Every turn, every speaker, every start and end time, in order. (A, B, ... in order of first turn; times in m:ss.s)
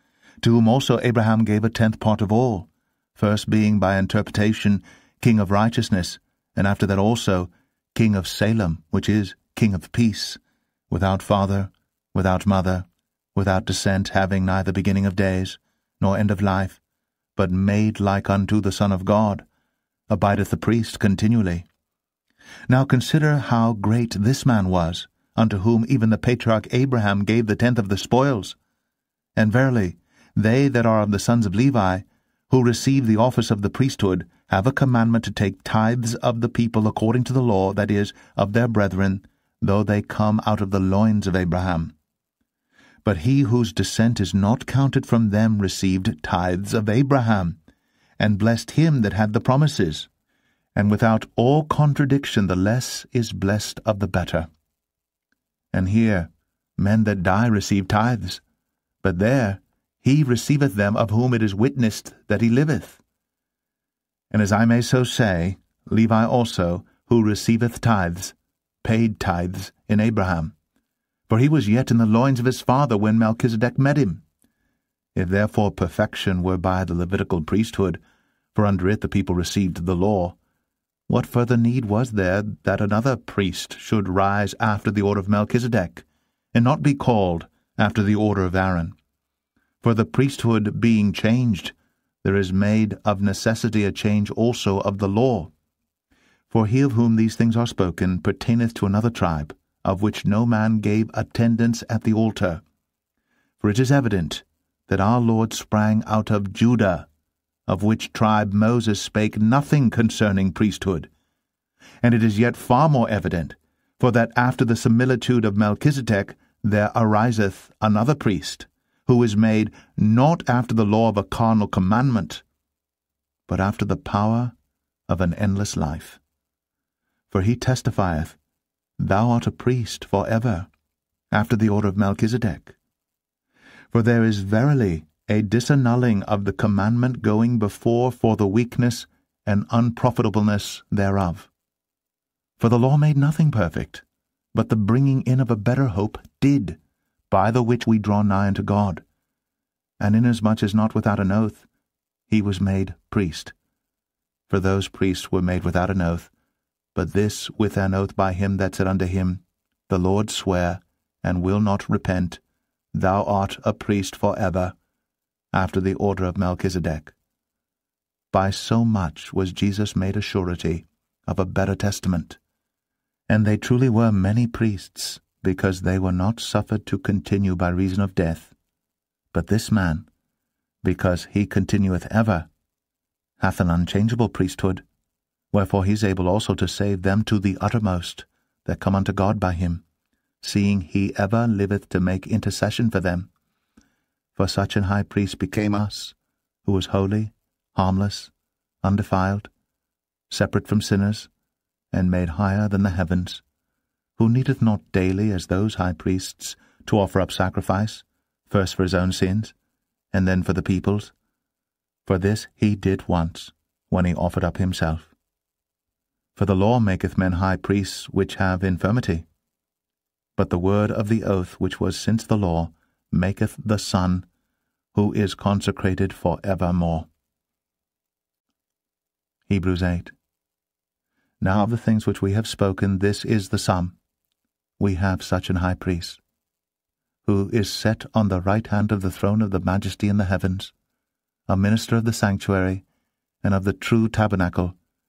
0:00.4-0:10.4 A
0:10.9-0:16.8 A
0:17.4-0:19.4 A
0:20.1-0:21.6 A
0:22.7-0:28.6 A
0:29.4-0:41.9 A
0:43.0-0:47.6 A
0:48.2-0:50.1 A
0:50.7-0:54.5 A
0:55.7-0:58.4 A
0:59.0-1:03.0 A
1:04.3-1:10.5 A
1:11.3-1:14.2 A
1:15.1-1:18.0 A
1:18.5-1:20.3 A
1:21.1-1:28.9 A
1:29.8-1:35.5 A
1:36.5-1:42.6 A
1:43.6-1:47.0 A
1:47.7-1:51.1 A
1:52.0-2:02.4 A
2:03.5-2:04.5 A
2:05.1-2:06.2 A
2:07.3-2:08.4 A
2:09.0-2:10.7 A
2:11.3-2:12.7 A
2:13.9-2:21.5 A
2:22.6-2:26.8 A
2:27.3-2:29.0 A
2:30.0-2:31.6 A
2:32.3-2:33.5 A
2:34.5-2:36.3 A
2:36.9-2:42.4 A
2:42.9-2:44.7 A
2:45.5-2:47.1 A
2:48.3-2:52.4 A
2:53.3-2:58.5 A
2:59.3-3:00.1 A
3:00.8-3:02.5 A
3:03.4-3:04.8 A
3:05.5-3:09.8 A
3:10.4-3:13.3 A
3:14.4-3:18.3 A
3:18.8-3:19.5 A
3:20.3-3:21.3 A
3:21.9-3:23.4 A
3:24.2-3:29.5 A
3:30.1-3:31.1 A
3:32.0-3:35.1 A
3:36.4-3:39.2 A
3:40.4-3:44.2 A
3:44.9-3:47.1 A
3:49.5-3:50.1 A
3:51.4-3:54.0 A
3:54.8-3:56.2 A
3:57.2-4:00.7 A
4:01.5-4:02.8 A
4:03.4-4:04.7 A